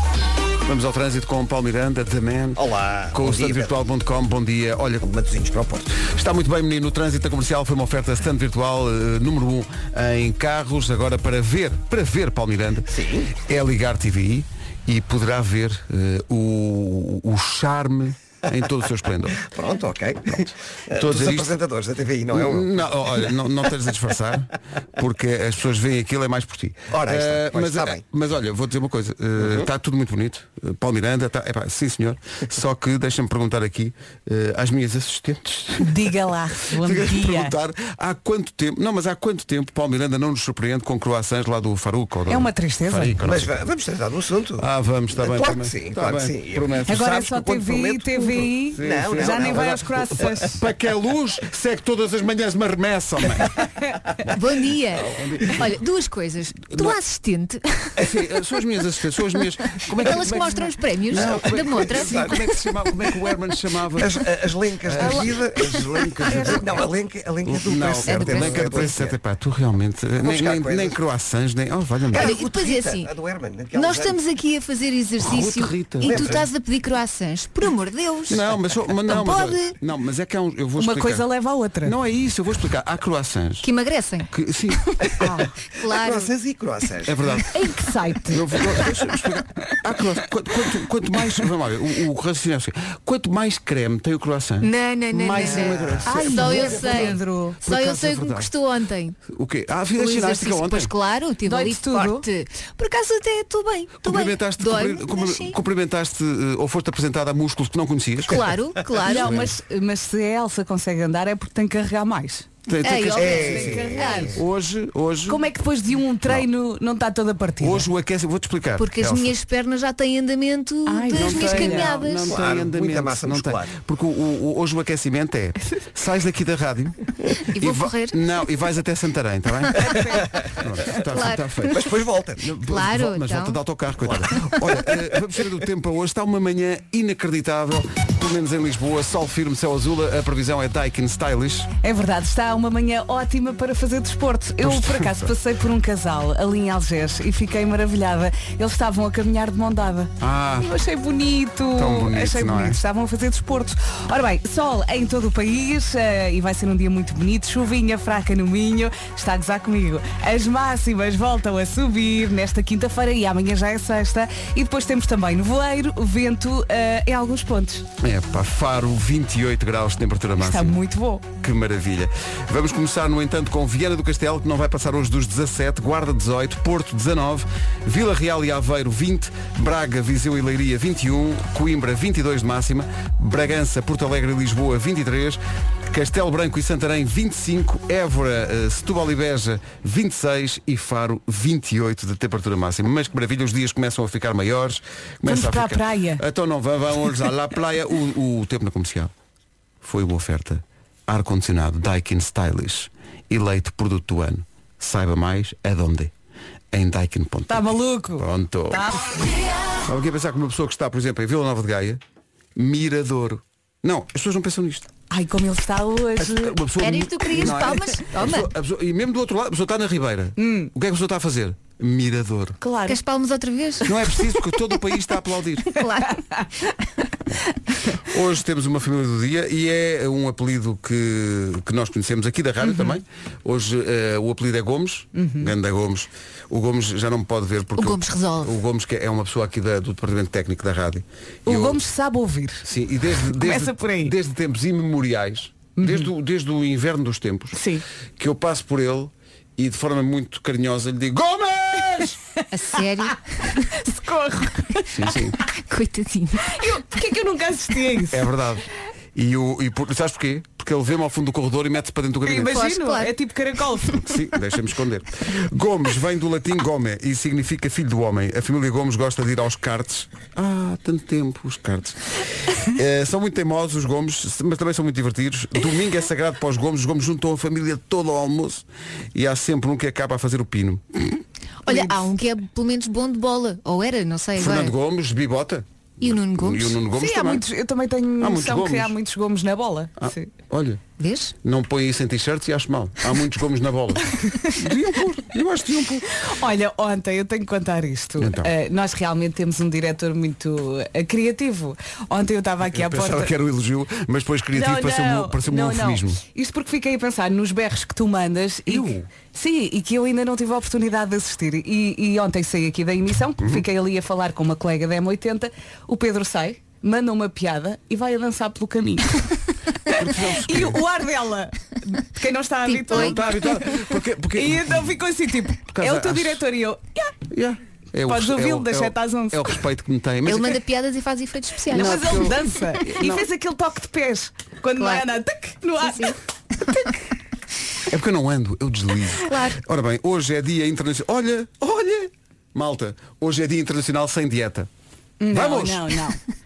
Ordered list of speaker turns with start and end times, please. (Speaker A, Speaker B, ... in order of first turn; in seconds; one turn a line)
Speaker A: 0.7-5.1
Speaker B: 2.6-3.7
Speaker B: 5.0-6.0
Speaker A: 6.0-19.5
Speaker B: 12.9-13.3
Speaker B: 19.4-22.9
Speaker A: 20.3-21.5
Speaker A: 22.3-36.1
Speaker B: 26.9-28.0
Speaker B: 29.4-29.7
Speaker C: 35.8-37.5
Speaker A: 36.7-43.6
Speaker C: 42.3-43.2
Speaker B: 43.2-50.4
Speaker A: 44.6-47.4
Speaker C: 46.9-50.6
Speaker A: 48.4-53.5
Speaker D: 54.3-58.1
Speaker A: 55.2-55.7
Speaker A: 58.0-64.3
Speaker D: 60.0-62.5
Speaker B: 61.1-62.5
Speaker B: 64.0-69.2
Speaker A: 64.8-66.8
Speaker C: 66.3-66.6
Speaker A: 67.4-72.3
Speaker D: 68.1-68.7
Speaker B: 70.2-71.0
Speaker B: 72.1-74.2
Speaker D: 72.1-73.1
Speaker D: 73.7-79.8
Speaker A: 75.2-76.4
Speaker B: 76.0-76.5
Speaker A: 78.3-81.2
Speaker C: 80.8-81.9
Speaker A: 81.8-83.7
Speaker D: 83.6-84.3
Speaker A: 84.3-84.9
Speaker B: 85.2-87.5
Speaker D: 85.2-86.3
Speaker A: 87.0-87.6
Speaker C: 87.5-88.4
Speaker A: 88.3-98.5
Speaker D: 94.6-99.2
Speaker B: 95.4-96.2
Speaker C: 96.0-97.6
Speaker A: 99.3-100.9
Speaker D: 100.0-105.6
Speaker C: 101.5-102.2
Speaker A: 104.0-108.5
Speaker D: 108.3-109.4
Speaker C: 109.0-112.5
Speaker A: 109.1-109.5
Speaker A: 112.7-115.5
Speaker D: 112.8-114.3
Speaker B: 113.2-114.3
Speaker C: 113.2-114.4
Speaker C: 115.3-117.9
Speaker A: 117.6-119.3
Speaker D: 118.8-122.4
Speaker C: 120.9-121.9
Speaker A: 121.1-127.0
Speaker B: 122.2-123.7
Speaker D: 127.5-128.2
Speaker A: 127.5-131.8
Speaker C: 129.9-130.2
Speaker D: 131.0-131.8
Speaker B: 131.7-132.4
Speaker A: 132.4-141.7
Speaker D: 132.7-133.6
Speaker B: 134.0-135.2
Speaker C: 141.8-167.9
Speaker A: 144.6-145.3
Speaker A: 150.2-150.7
Speaker A: 151.8-152.8
Speaker A: 168.0-170.8
Speaker C: 170.4-171.2
Speaker A: 171.4-199.1
Speaker C: 195.2-196.2
Speaker A: 199.8-206.1
Speaker A: 206.7-208.9
Speaker C: 207.5-209.1
Speaker A: 209.8-212.0
Speaker A: 212.6-214.9
Speaker C: 215.1-216.6
Speaker A: 216.2-222.6
Speaker D: 216.8-218.5
Speaker C: 220.4-220.7
Speaker C: 222.6-223.0
Speaker D: 222.9-224.2
Speaker A: 223.8-225.8
Speaker D: 225.7-226.2
Speaker A: 228.1-241.8
Speaker C: 232.6-233.0
Speaker C: 235.2-235.5
Speaker D: 237.8-238.5
Speaker C: 241.5-242.7
Speaker A: 242.7-247.6
Speaker C: 243.3-244.2
Speaker C: 245.8-246.1
Speaker C: 247.5-247.8
Speaker A: 248.2-252.2
Speaker D: 252.5-253.7
Speaker C: 253.6-255.1
Speaker A: 254.9-255.4
Speaker D: 255.6-256.7
Speaker C: 256.4-258.3
Speaker A: 258.1-262.7
Speaker C: 262.2-264.0
Speaker D: 262.5-263.2
Speaker A: 263.9-281.0
Speaker D: 281.6-284.7
Speaker A: 284.4-287.4
Speaker D: 286.0-286.8
Speaker C: 287.0-290.3
Speaker A: 288.2-288.9
Speaker A: 290.0-290.8
Speaker D: 291.0-291.4
Speaker A: 291.4-296.1
Speaker C: 296.2-303.3
Speaker A: 298.2-298.5
Speaker A: 302.7-306.2
Speaker C: 304.5-323.8
Speaker A: 308.7-309.1
Speaker A: 313.4-313.6
Speaker A: 319.9-320.8
Speaker D: 322.7-323.2
Speaker A: 322.9-324.9
Speaker C: 324.4-327.1
Speaker A: 325.7-326.4
Speaker A: 327.3-330.6
Speaker C: 328.1-329.6
Speaker D: 330.3-332.3
Speaker A: 331.7-333.3
Speaker C: 331.7-336.2
Speaker D: 334.8-335.0
Speaker D: 335.8-336.1
Speaker C: 336.7-336.9
Speaker A: 337.9-344.7
Speaker D: 339.3-339.6
Speaker C: 345.2-346.2
Speaker A: 345.3-346.0